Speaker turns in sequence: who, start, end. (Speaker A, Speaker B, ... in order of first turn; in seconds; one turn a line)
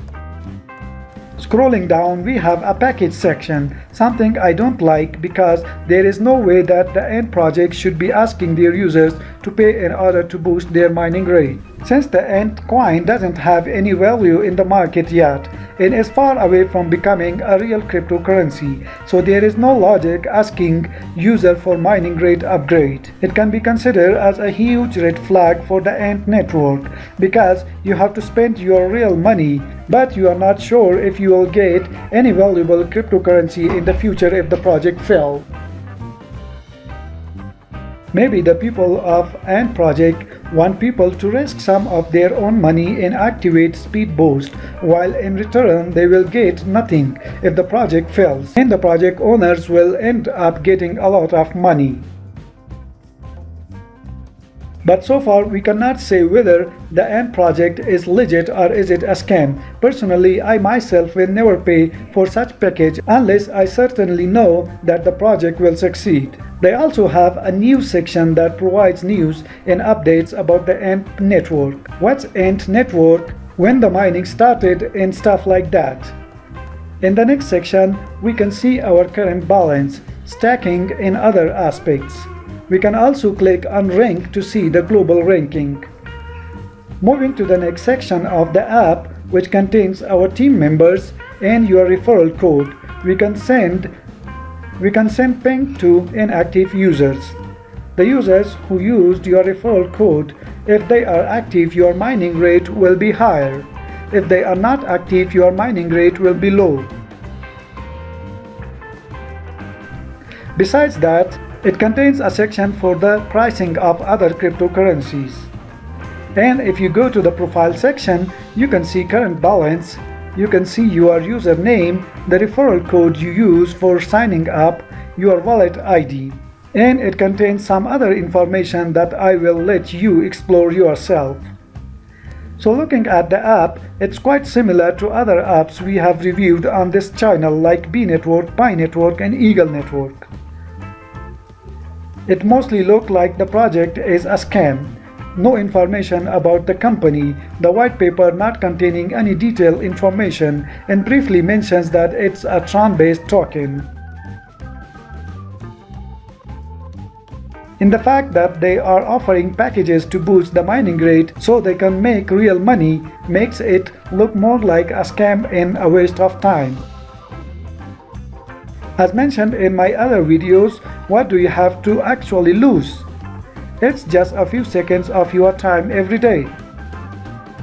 Speaker A: 1.4-35.5
Speaker A: 38.1-52.0
Speaker A: 54.8-76.1
Speaker A: 77.0-85.9
Speaker A: 87.0-93.9
Speaker A: 94.8-97.4
Speaker A: 98.0-106.9
Speaker A: 110.5-115.5
Speaker A: 116.3-131.5
Speaker A: 132.6-140.3
Speaker A: 142.3-153.9
Speaker A: 157.8-166.8
Speaker A: 169.0-173.1
Speaker A: 173.8-176.6